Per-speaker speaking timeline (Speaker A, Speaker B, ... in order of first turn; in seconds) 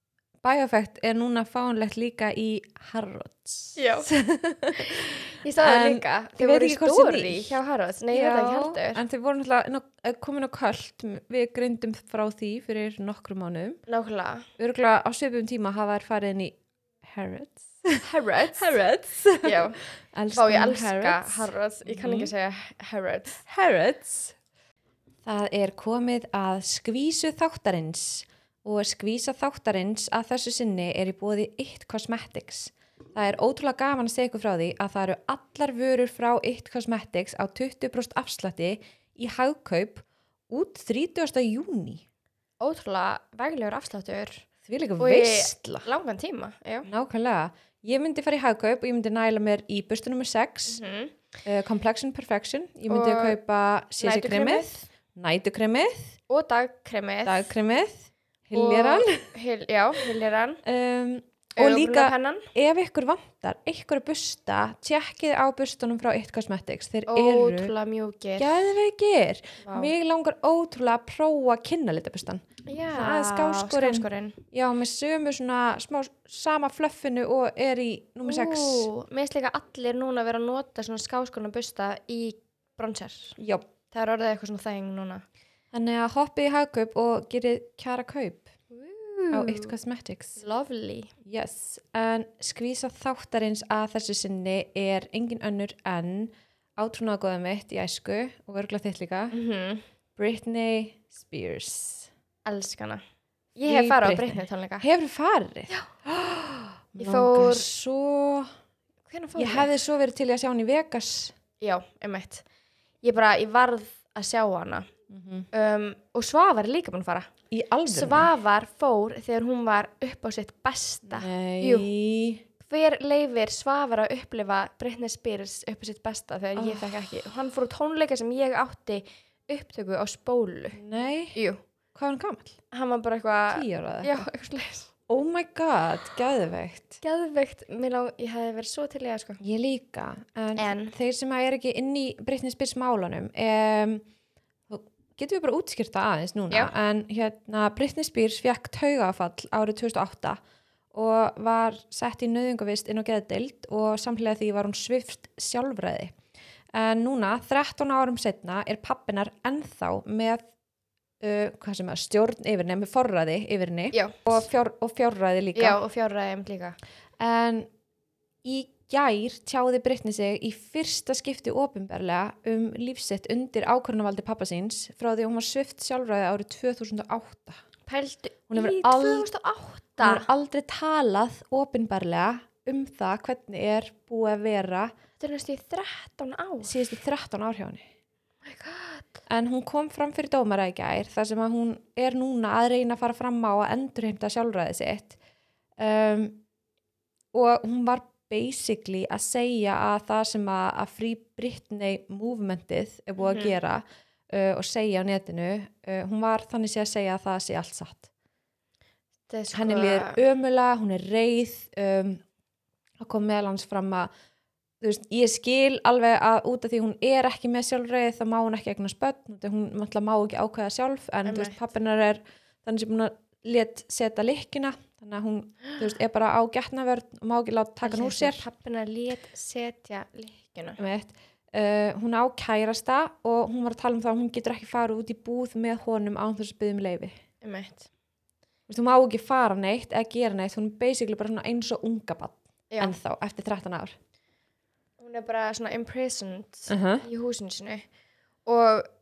Speaker A: 0.4-7.6, 8.1-13.8, 14.6-22.3, 23.4-24.4, 25.2-42.0, 44.6-45.9, 46.9-50.8, 51.5-56.1, 57.2-59.2, 60.6-67.7, 68.4-78.9, 83.4-83.7, 85.7-88.5, 89.3-90.4, 91.2-99.3, 100.2-102.1, 103.7-108.5, 109.4-111.3, 115.1-115.5, 117.5-118.3, 121.1-122.4, 126.5-127.2, 130.8-131.3, 131.9-132.6, 133.5-134.2, 135.1-137.0, 139.4-144.0, 144.7-150.4, 150.9-156.1, 156.7-160.4, 161.2-165.8, 167.2-167.7, 168.4-177.6, 178.5-179.3, 180.0-184.9, 186.6-187.8, 189.3-195.2, 195.8-196.4, 197.3-208.1, 209.5-212.2, 213.0-214.1, 214.8-228.4, 230.8-237.2, 238.7-243.9, 246.7-247.0
Speaker B: 3.8-4.1, 4.9-9.0, 13.9-14.5, 18.0-18.8, 19.4-19.8, 20.3-23.4, 42.6-44.5, 45.0-46.9, 50.7-51.2, 52.9-53.4, 54.0-54.8, 56.3-57.5, 58.5-60.6, 61.5-62.5, 67.1-68.7, 69.6-69.9, 72.7-74.4, 78.2-83.3, 83.9-85.2, 88.7-89.7, 90.4-91.1, 99.3-99.8, 102.4-103.0, 103.5-104.8, 107.0-107.7, 109.1-109.7, 111.6-112.4, 113.0-114.9, 115.5-117.3, 117.9-121.9, 122.6-130.8, 131.3-131.6, 132.7-134.9, 137.0-139.4, 140.6-140.9, 163.9-164.4, 165.5-166.8, 177.9-180.3, 185.2-186.8, 188.4-189.2, 203.2-203.5, 209.3-210.2, 221.2-221.6, 227.8-230.8, 237.4-237.9, 242.7-242.9, 245.0-247.8, 248.4-248.9